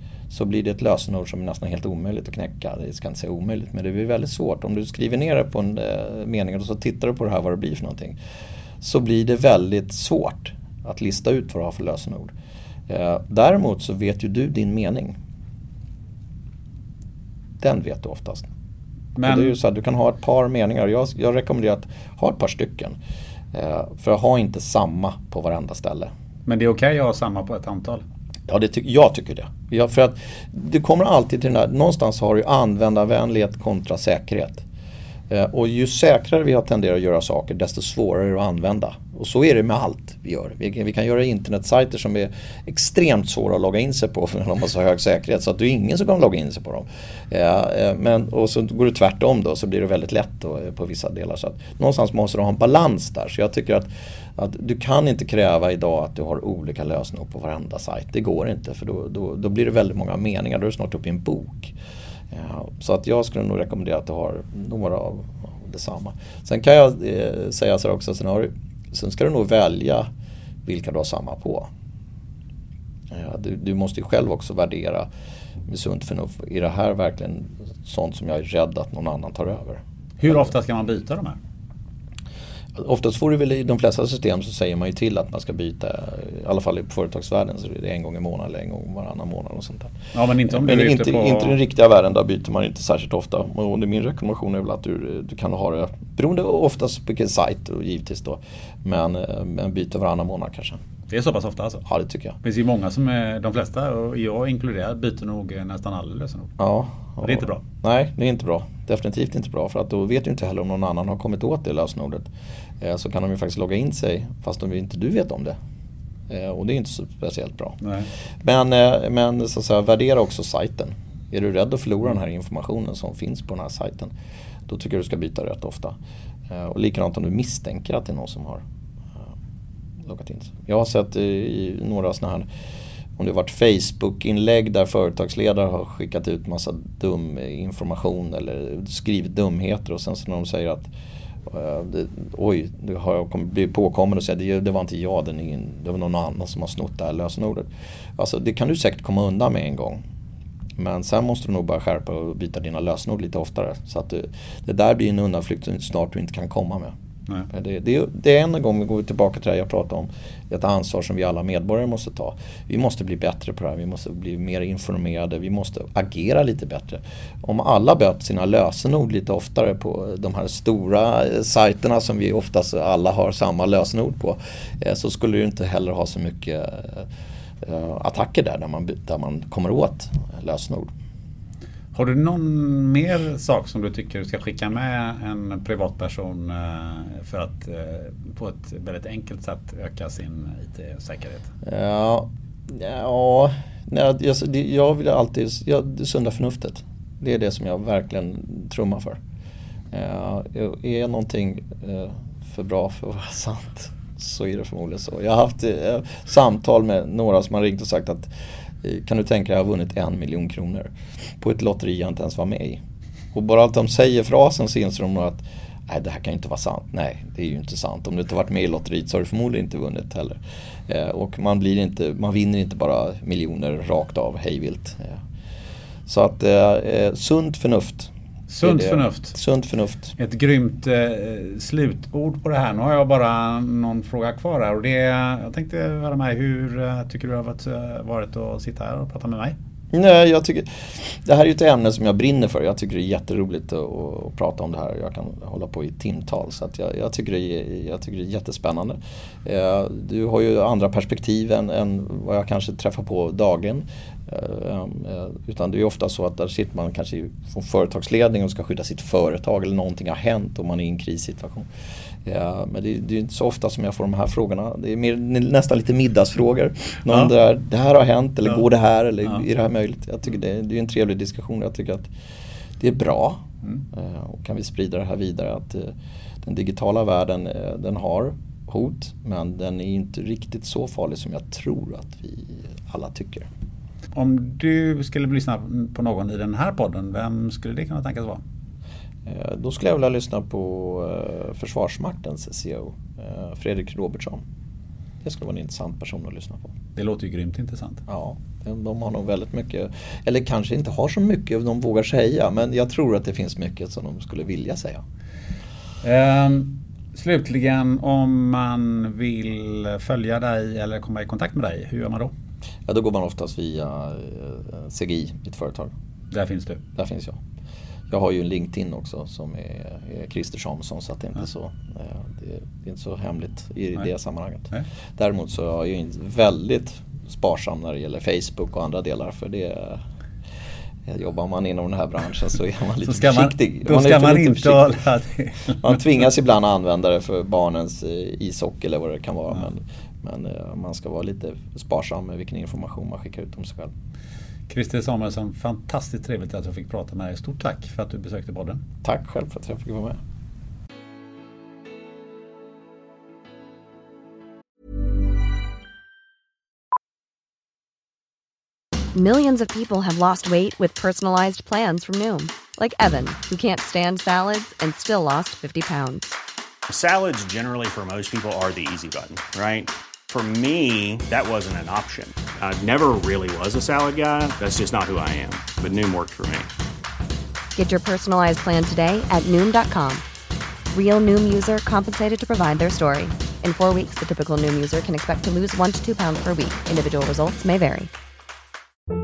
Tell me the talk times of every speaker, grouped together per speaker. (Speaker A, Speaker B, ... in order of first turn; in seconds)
Speaker A: 0.3-8.2, 8.8-12.3, 12.9-15.2, 17.6-18.5, 19.2-23.0, 23.5-26.1, 28.5-34.6, 35.3-61.7, 62.3-70.1, 70.7-71.7, 73.1-75.1, 75.7-80.4, 82.8-90.0, 90.5-100.8, 101.9-102.4, 106.6-112.3, 112.8-115.5, 116.3-117.8, 118.4-124.1, 124.7-126.0, 126.5-128.6, 130.0-132.5, 133.2-140.9, 141.5-150.0, 150.8-156.9, 157.5-177.1, 177.6-180.9, 191.6-199.2, 199.9-208.3, 208.8-212.8, 213.3-225.2, 226.1-230.1, 239.9-261.7, 262.2-272.1, 272.8-283.5, 289.2-294.4, 295.2-296.7, 298.1-305.0, 312.9-315.9, 316.9-317.4, 318.1-330.0, 331.1-334.9, 335.8-343.9, 349.0-350.2
Speaker B: 19.2-19.6, 26.4-28.0, 80.2-81.4, 90.1-91.5, 101.1-101.8, 102.4-106.5, 107.2-107.6, 117.8-118.1, 181.9-191.5, 228.5-229.3, 230.2-239.6, 284.1-288.4, 296.9-298.0, 306.0-312.3, 316.3-316.8, 333.0-335.9, 344.7-348.8
Speaker C: 359.1-366.3, 377.7-380.2, 380.9-388.1
Speaker D: 366.9-376.7